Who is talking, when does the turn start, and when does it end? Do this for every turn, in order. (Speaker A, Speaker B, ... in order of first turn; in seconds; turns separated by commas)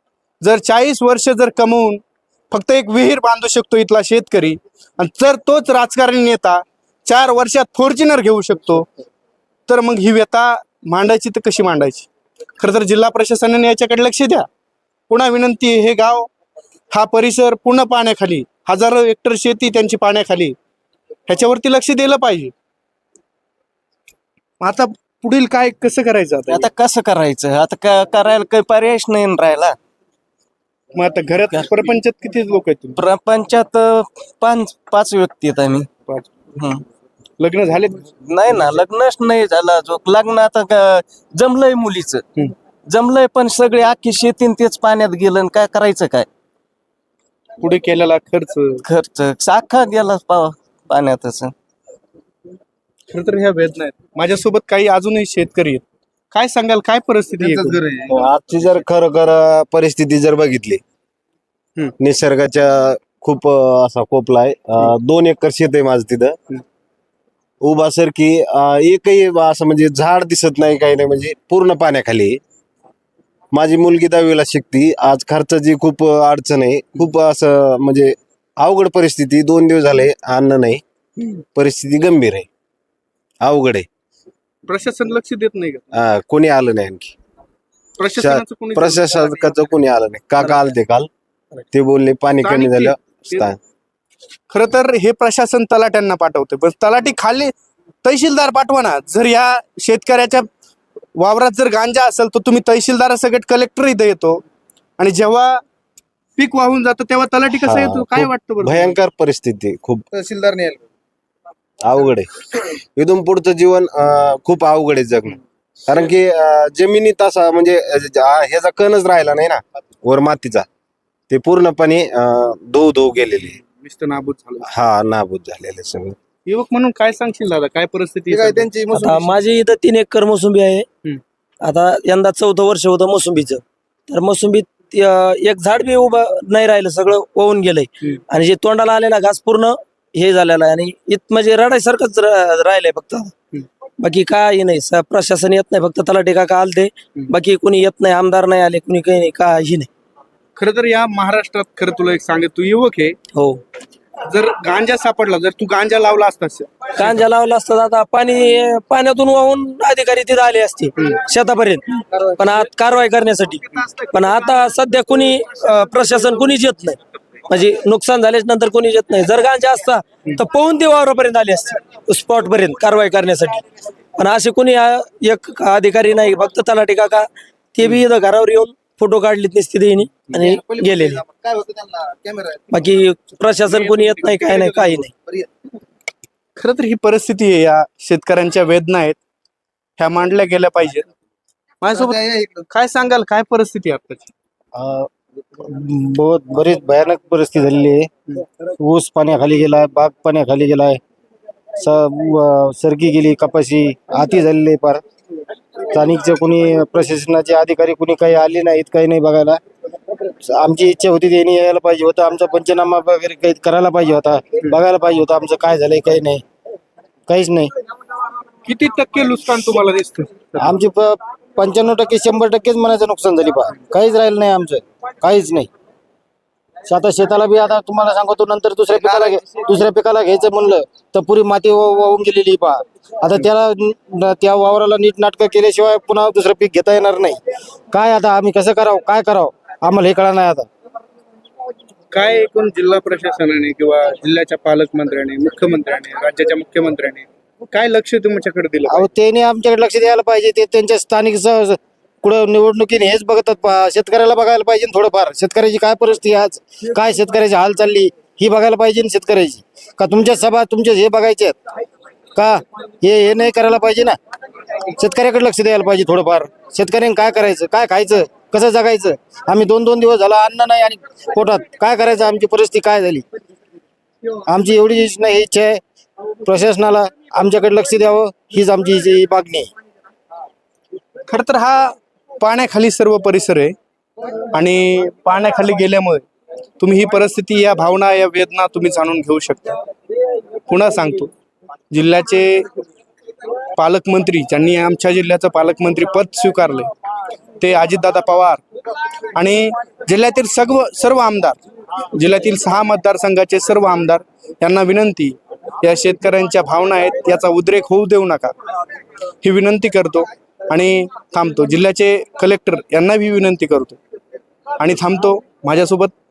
Speaker A: 0.4-8.9, Speaker A: 9.7-12.1, Speaker A: 12.6-14.5, Speaker A: 15.1-16.3, Speaker A: 16.9-20.5, Speaker A: 21.3-22.5, Speaker A: 24.6-26.7, Speaker B: 26.8-29.7, Speaker A: 30.9-33.0, Speaker B: 33.2-33.8, Speaker B: 34.5-35.9, Speaker A: 37.4-38.0, Speaker B: 38.5-42.2, Speaker B: 43.0-46.2, Speaker A: 47.6-48.8, Speaker B: 48.9-51.5, Speaker A: 53.1-57.8, Speaker C: 57.4-58.2, Speaker D: 57.8-60.8, Speaker D: 62.0-66.3, Speaker D: 67.6-72.4, Speaker D: 73.5-80.8, Speaker D: 81.5-82.5, Speaker D: 83.4-83.8, Speaker A: 84.7-85.8, Speaker D: 86.0-87.1, Speaker A: 88.0-89.7, Speaker D: 88.2-91.1, Speaker D: 91.7-93.6, Speaker A: 92.4-93.5, Speaker A: 94.5-97.5, Speaker A: 98.0-100.5, Speaker A: 101.2-104.4, Speaker A: 105.0-105.6, Speaker A: 106.4-108.9, Speaker D: 107.7-110.0, Speaker C: 110.1-110.8, Speaker D: 111.8-112.3, Speaker D: 113.0-115.3, Speaker C: 115.9-116.1, Speaker D: 115.9-120.7, Speaker D: 121.3-123.5, Speaker A: 123.5-124.7, Speaker D: 124.7-126.2, Speaker A: 126.5-128.8, Speaker C: 128.3-129.4, Speaker E: 128.9-130.8, Speaker E: 131.6-143.3, Speaker E: 144.0-149.9, Speaker A: 150.6-153.1, Speaker E: 153.3-153.6, Speaker A: 154.3-157.1, Speaker E: 156.9-173.6, Speaker E: 174.2-181.2, Speaker C: 180.4-182.6, Speaker E: 182.7-185.1, Speaker A: 183.6-185.0, Speaker A: 186.6-189.2, Speaker A: 190.0-191.0, Speaker A: 191.8-194.3, Speaker C: 191.9-192.7, Speaker F: 194.8-195.1, Speaker F: 195.6-198.1, Speaker F: 198.8-201.0, Speaker F: 201.8-205.0, Speaker F: 205.9-209.6, Speaker F: 210.4-216.4, Speaker F: 217.3-217.7, Speaker A: 218.7-220.7, Speaker F: 220.6-225.7, Speaker F: 226.9-240.7, Speaker A: 242.1-249.0, Speaker F: 248.9-261.6, Speaker F: 262.4-264.2, Speaker F: 265.0-273.2, Speaker F: 274.5-275.8, Speaker F: 276.4-279.7, Speaker A: 281.3-283.7, Speaker A: 284.5-286.2, Speaker A: 286.8-289.8, Speaker A: 290.7-291.3, Speaker A: 291.9-292.7, Speaker A: 293.8-296.9, Speaker A: 297.6-298.6, Speaker A: 299.4-301.6, Speaker A: 302.1-308.5, Speaker A: 309.4-314.0, Speaker A: 314.8-316.1